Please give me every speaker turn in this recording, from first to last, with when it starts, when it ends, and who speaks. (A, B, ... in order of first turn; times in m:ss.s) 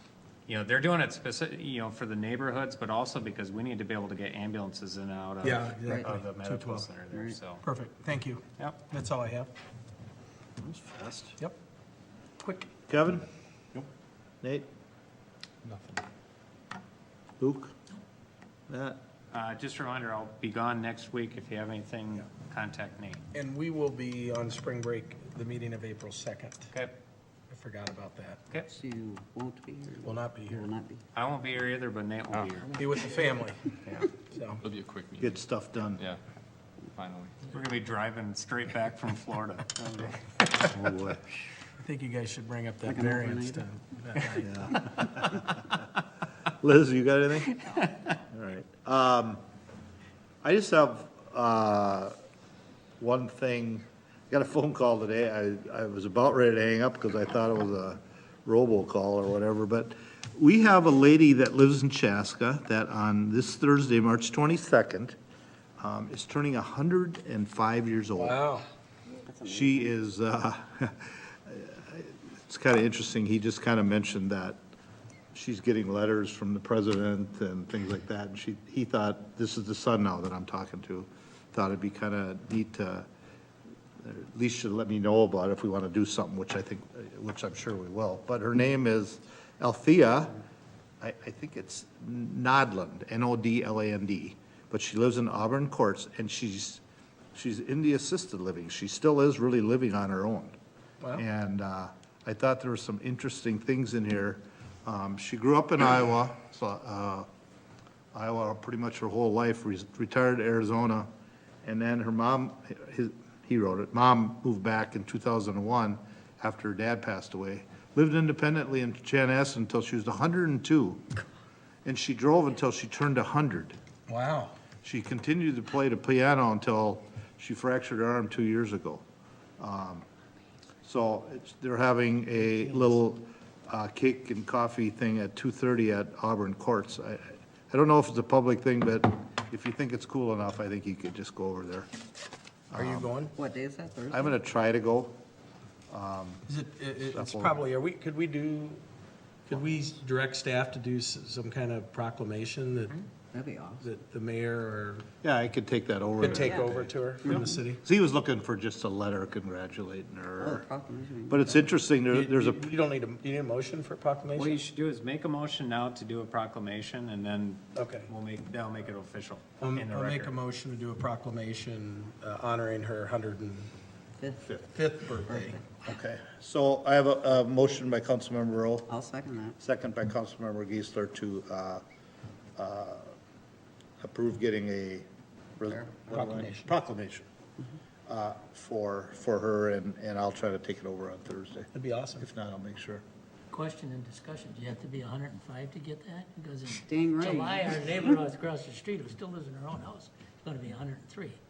0:00.5-0:07.6 A
0:05.4-0:06.8 B
0:05.9-0:06.1 C
0:07.1-0:07.4 C
0:07.6-0:09.5 B
0:10.6-0:11.4 D
0:12.9-0:13.2 D
0:14.4-0:14.7 D
0:15.6-0:16.0 E
0:17.4-0:17.8 D
0:18.7-0:19.0 D
0:19.3-0:23.2 A
0:23.3-0:26.7 B
0:27.5-0:28.4 B
0:28.6-0:31.0 C
0:30.0-0:30.7 B
0:31.1-0:32.9 A
0:32.7-0:34.6 B
0:33.9-0:35.4 E
0:35.2-0:36.0 D
0:36.9-0:37.5 E
0:37.5-0:40.8 A
0:40.7-0:41.2 D
0:41.8-0:44.8 B
0:42.8-0:43.6 C
0:44.4-0:45.7 D
0:46.6-0:47.8 D
0:48.3-0:49.4 D
0:50.4-0:52.1 D
0:53.0-1:05.2 D
1:05.8-1:08.4 D
1:08.2-1:08.6 B
1:09.3-1:09.9 C
1:09.4-1:14.6 D
1:15.3-1:23.1 D
1:24.0-1:30.4 D
1:31.0-1:36.8 D
1:37.3-1:40.5 D
1:41.1-1:47.3 D
1:48.1-1:51.1 D
1:51.6-2:01.1 D
2:01.8-2:03.8 D
2:04.1-2:04.6 B
2:04.8-2:09.0 D
2:09.6-2:10.0 D
2:10.8-2:21.9 D
2:22.7-2:23.1 D
2:22.8-2:23.3 B
2:23.4-2:24.4 C
2:24.1-2:25.2 D
2:25.9-2:26.5 D
2:26.5-2:28.8 B
2:27.0-2:27.6 D
2:29.5-2:32.9 B
2:33.3-2:33.9 C
2:33.8-2:35.1 B
2:35.2-2:40.6 D
2:36.2-2:37.8 B
2:36.3-2:37.6 C
2:40.4-2:41.7 C
2:41.3-2:42.7 D
2:42.1-2:44.6 B
2:44.4-2:50.4 A
2:47.8-2:48.1 B
2:49.6-2:53.7 B
2:54.2-2:54.6 C
2:54.6-2:55.6 B
2:55.3-2:55.6 C
2:55.8-2:58.9 D
2:58.9-2:59.6 C
2:59.6-3:01.8 D
3:02.6-3:03.1 D
3:04.0-3:05.1 D
3:05.6-3:07.3 D
3:06.1-3:06.7 B
3:08.1-3:13.0 D
3:11.8-3:12.3 B
3:13.5-3:21.4 F
3:16.8-3:18.2 C